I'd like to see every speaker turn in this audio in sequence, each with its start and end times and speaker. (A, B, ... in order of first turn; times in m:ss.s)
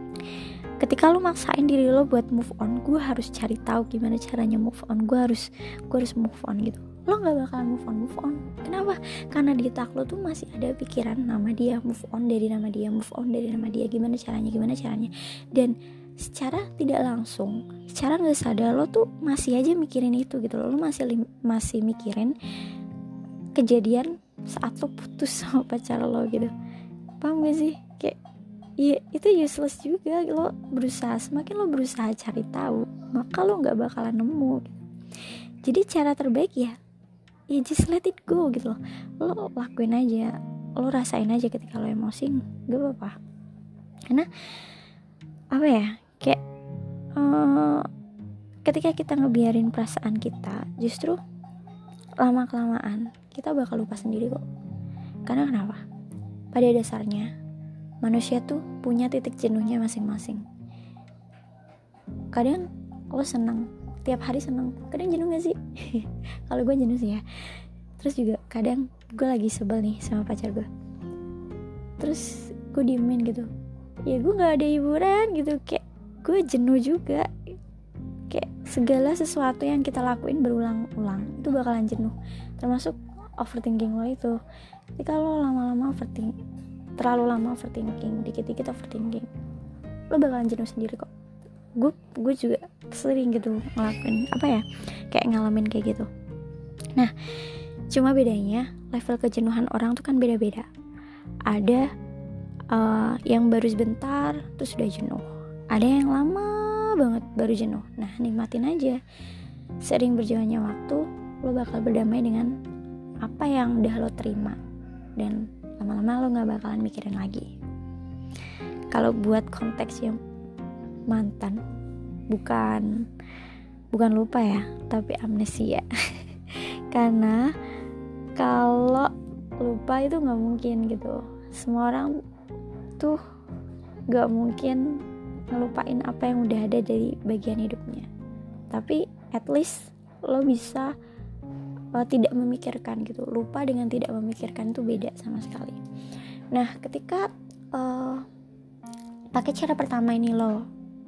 0:00.8-0:22.4 A
0:23.6-0:26.5 A
0:27.2-0:28.2 A
0:28.8-0:34.8 A
0:35.6-0:36.8 A
0:37.5-0:43.2 A
0:44.1-0:44.4 A
0:45.5-0:46.4 A
0:47.2-0:47.9 A
0:48.6-0:51.2 A
0:52.2-0:54.4 A
0:55.3-0:55.8 A
0:56.5-0:57.3 A
0:58.0-1:00.4 A
1:02.3-1:07.2 A
1:08.0-1:10.7 A
1:12.0-1:13.5 A
1:14.1-1:17.3 A
1:18.3-1:24.4 A
1:25.0-1:26.3 A
1:27.0-1:29.3 A
1:30.1-1:31.1 A
1:31.8-1:36.1 A
1:37.0-1:40.7 A
1:41.5-1:41.9 A
1:42.7-1:49.0 A
1:49.8-1:52.5 A
1:53.2-1:54.6 A
1:55.2-1:57.5 A
1:58.9-2:00.2 A
2:01.1-2:01.6 A
2:02.3-2:03.0 A
2:03.9-2:07.5 A
2:08.4-2:12.1 A
2:14.1-2:15.0 A
2:15.5-2:18.1 A
2:18.7-2:20.9 A
2:21.9-2:25.8 A
2:26.5-2:28.3 A
2:29.3-2:30.7 A